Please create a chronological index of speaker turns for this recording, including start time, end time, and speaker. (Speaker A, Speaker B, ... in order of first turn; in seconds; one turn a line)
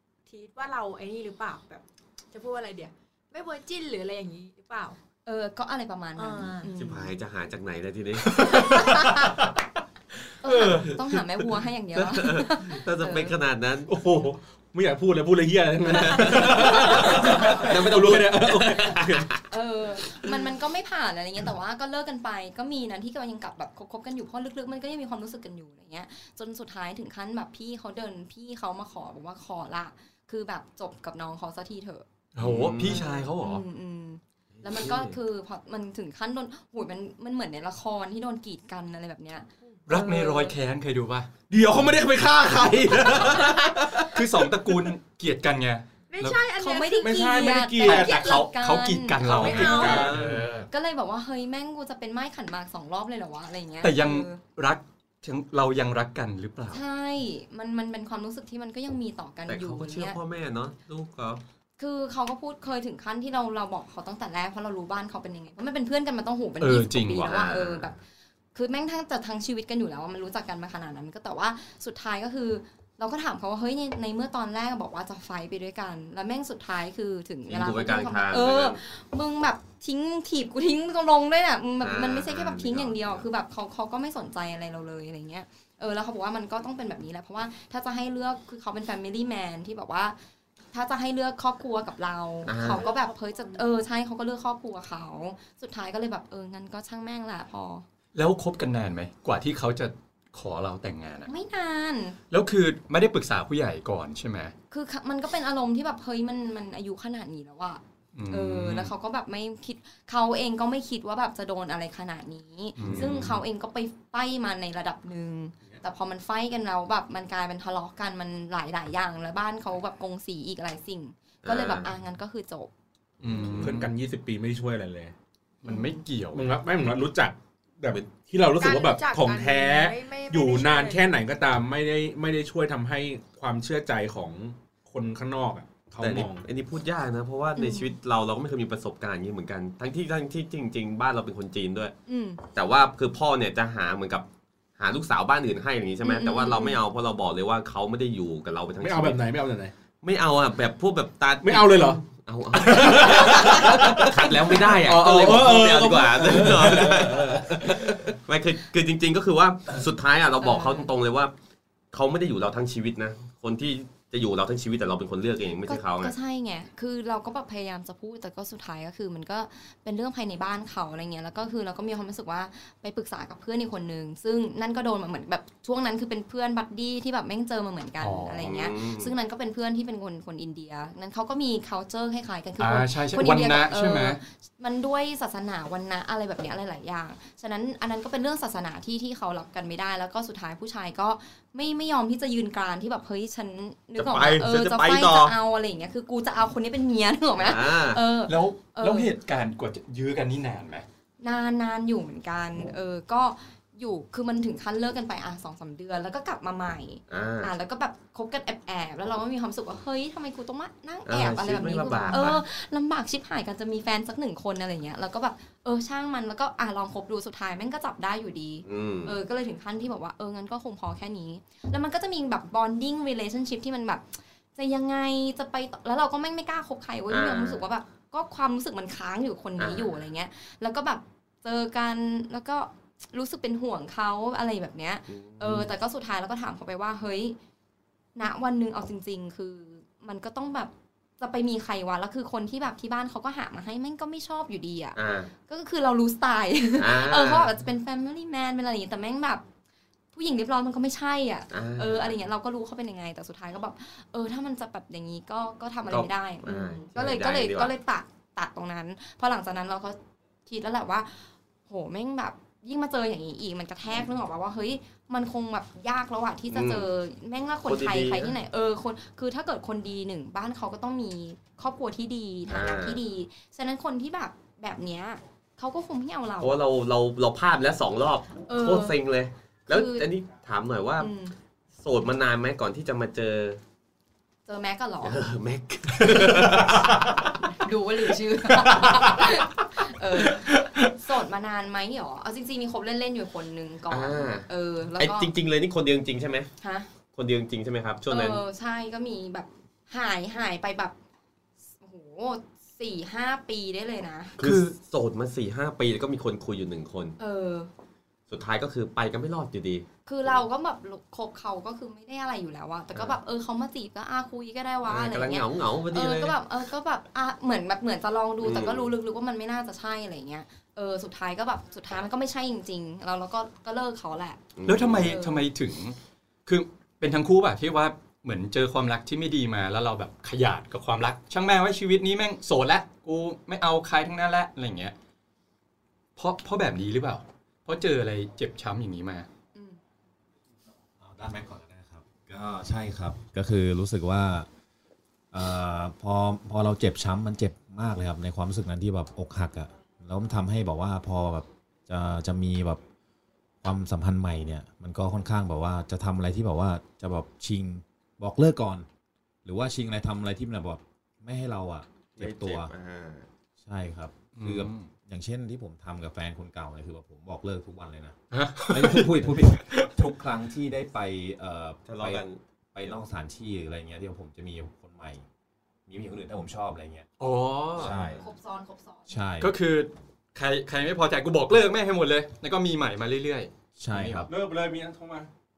Speaker A: 0.3-5.0
Speaker B: 5.2-7.2
Speaker A: 6.2-6.7
Speaker C: 6.8-8.8
Speaker D: 8.3-9.3
Speaker B: 8.7-9.3
Speaker B: 10.4-13.4
Speaker C: 10.7-10.9
Speaker C: 12.0-13.9
Speaker D: 13.9-19.3
Speaker C: 15.9-19.4
Speaker B: 19.5-32.0
Speaker E: 32.3-33.6
Speaker C: 32.4-33.3
Speaker B: 32.8-40.5
Speaker C: 34.5-35.2
Speaker E: 39.9-41.3
Speaker D: 41.5-44.2
Speaker E: 44.1-46.4
Speaker A: 46.1-47.5
Speaker B: 46.5-50.1
Speaker D: 47.0-48.4
Speaker E: 47.8-50.7
Speaker A: 49.2-50.1
Speaker D: 49.3-50.4
Speaker C: 49.9-50.5
Speaker B: 50.7-54.4
Speaker E: 53.8-56.8
Speaker B: 56.7-60.2
Speaker C: 59.5-61.4
Speaker B: 61.8-68.0
Speaker E: 66.6-67.3
Speaker C: 67.1-67.9
Speaker B: 68.5-90.2
Speaker C: 77.5-78.8
Speaker C: 81.8-83.2
Speaker B: 90.7-97.8
Speaker C: 92.5-92.9
Speaker A: 92.6-93.7
Speaker E: 98.1-101.3
Speaker B: 101.3-102.2
Speaker E: 102.3-104.5
Speaker B: 104.7-122.7
Speaker E: 108.1-108.9
Speaker E: 112.8-113.4
Speaker C: 121.4-121.9
Speaker E: 123.2-123.9
Speaker D: 123.3-125.1
Speaker E: 125.6-126.5
Speaker B: 125.7-126.0
Speaker D: 126.3-136.4
Speaker A: 128.6-131.2
Speaker C: 136.0-141.9
Speaker B: 137.6-137.9
Speaker B: 142.1-142.4
Speaker C: 142.5-144.3
Speaker C: 144.8-149.2
Speaker B: 146.0-146.8
Speaker D: 148.8-149.7
Speaker C: 150.0-161.3
Speaker D: 151.4-152.0
Speaker D: 152.5-158.1
Speaker B: 160.4-160.9
Speaker C: 161.9-166.1
Speaker B: 165.7-199.1
Speaker E: 178.0-178.5
Speaker C: 178.4-179.1
Speaker E: 182.6-184.2
Speaker C: 194.0-195.3
Speaker C: 197.4-198.0
Speaker E: 198.3-200.8
Speaker B: 201.2-237.4
Speaker C: 207.1-207.5
Speaker C: 211.1-212.4
Speaker C: 218.7-219.2
Speaker C: 227.1-227.6
Speaker C: 229.6-229.9
Speaker C: 235.1-235.7
Speaker B: 238.2-249.4
Speaker C: 244.9-245.3
Speaker C: 246.8-247.5
Speaker B: 250.1-276.6
Speaker C: 251.5-252.2
Speaker C: 255.9-257.7
Speaker C: 266.5-266.9
Speaker C: 267.6-268.3
Speaker C: 272.5-273.0
Speaker C: 276.4-281.1
Speaker B: 278.5-279.0
Speaker B: 279.7-280.1
Speaker B: 281.0-281.3
Speaker C: 281.8-283.6
Speaker B: 284.5-285.2
Speaker C: 285.0-287.4
Speaker B: 286.3-286.5
Speaker B: 287.4-295.3
Speaker C: 293.9-296.5
Speaker B: 296.6-296.9
Speaker C: 297.1-298.4
Speaker B: 298.1-300.9
Speaker B: 301.8-304.4
Speaker C: 304.4-307.1
Speaker E: 304.4-304.7
Speaker B: 307.2-307.7
Speaker C: 308.3-310.4
Speaker B: 310.1-324.4
Speaker C: 314.9-316.4
Speaker C: 318.4-318.9
Speaker C: 324.6-325.1
Speaker E: 324.6-334.9
Speaker B: 325.0-325.4
Speaker E: 336.1-339.3
Speaker F: 341.0-344.5
Speaker F: 345.3-352.8
Speaker F: 353.6-358.9
Speaker F: 359.4-362.7
Speaker C: 362.2-363.3
Speaker F: 363.6-375.2
Speaker E: 364.4-364.9
Speaker E: 368.3-369.9
Speaker C: 371.9-372.4
Speaker F: 375.9-377.1
Speaker E: 377.2-377.9
Speaker F: 377.8-378.2
Speaker C: 377.8-378.2
Speaker B: 378.2-379.1
Speaker F: 379.1-379.5
Speaker E: 379.4-384.3
Speaker F: 383.8-384.3
Speaker D: 384.2-385.3